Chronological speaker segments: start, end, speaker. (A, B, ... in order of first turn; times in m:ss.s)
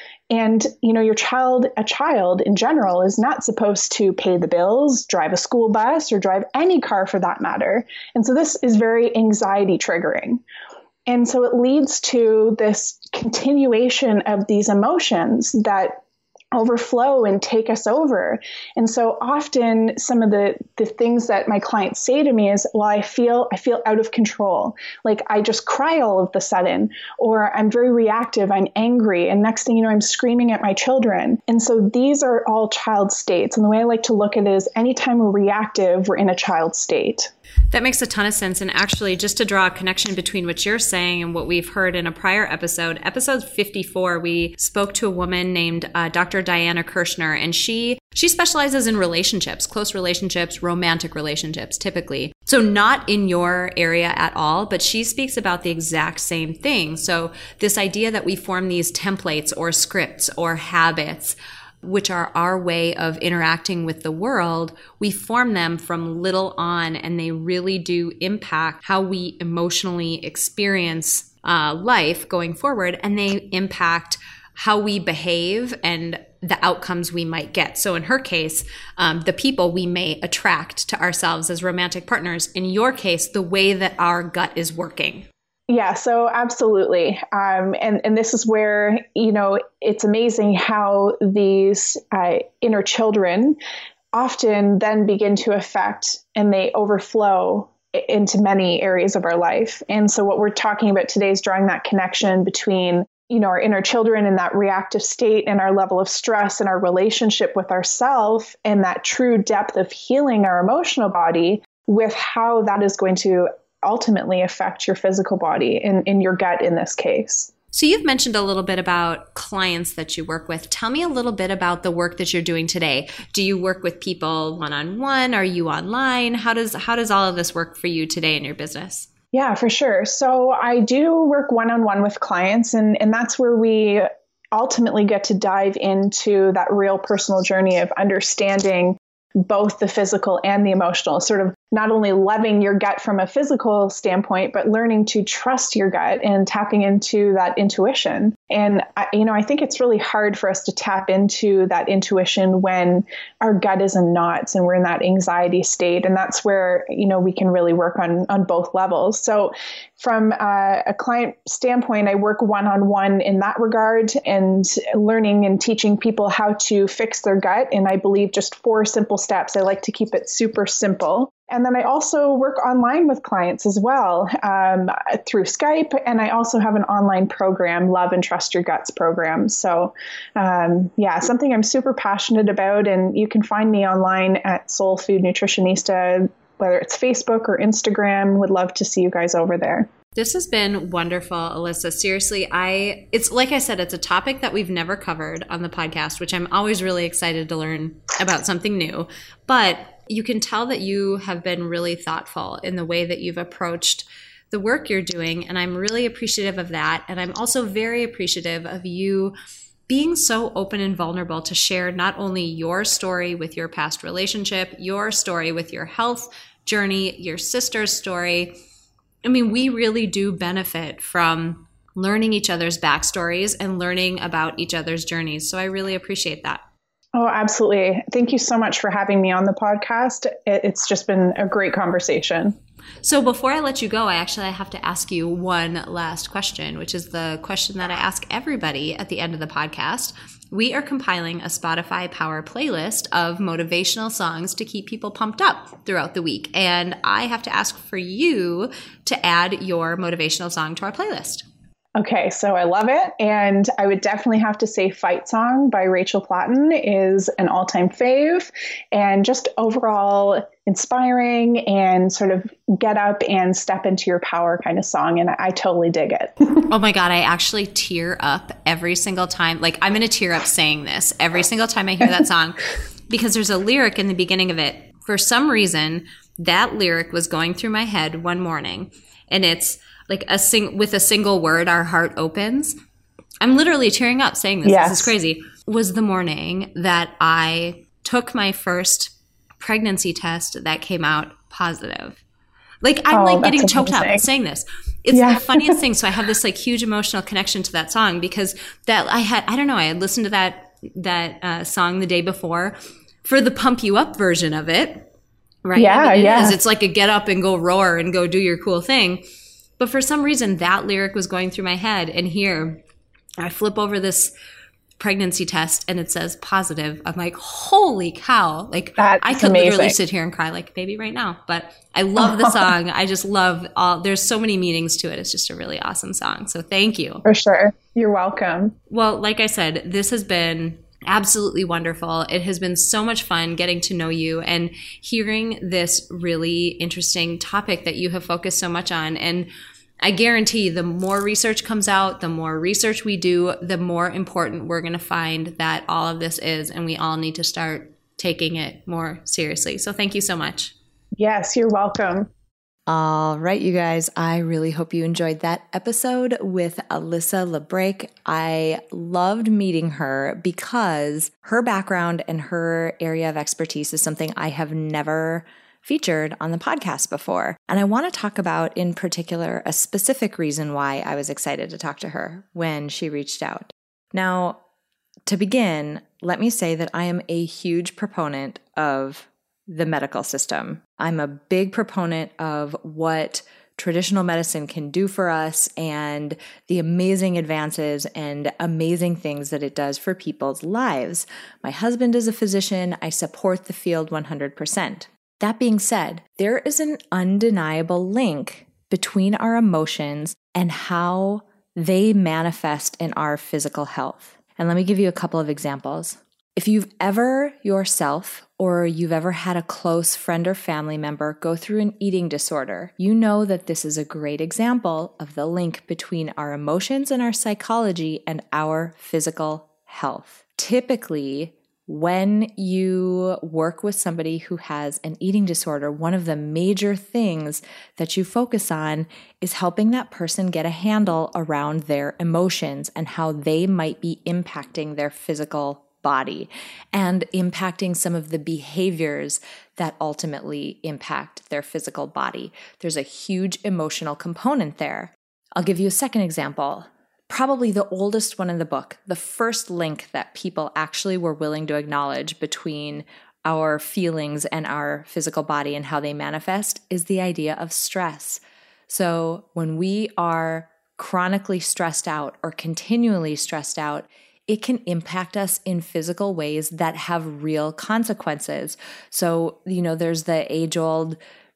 0:00.3-0:10.4 A
0:11.0-0:16.0 A
0:16.5-0:37.3 A
0:37.7-1:25.3 B
1:25.7-1:33.6 A
1:34.1-1:57.5 A
1:57.7-2:09.1 B
2:09.3-3:09.9 A
3:10.1-3:29.3 B
3:29.9-3:38.5 B
3:39.2-3:46.6 B
3:47.1-3:52.5 A
3:53.0-4:11.4 B
4:12.0-4:26.3 A
4:26.6-4:42.7 B
4:43.4-4:52.2 B
4:44.6-4:45.1 A
4:52.8-5:05.1 B
4:53.1-4:54.2 A
4:55.1-4:55.8 A
5:05.6-5:09.2 B
5:05.8-5:06.6 A
5:09.8-5:12.8 B
5:13.4-5:14.3 B
5:15.0-5:27.2 B
5:19.0-5:20.0 A
5:22.2-5:22.5 A
5:27.2-5:28.7 A
5:28.9-5:39.5 B
5:40.0-5:50.7 B
5:51.2-5:52.3 A
5:52.9-6:14.6 C
6:15.3-7:51.2 C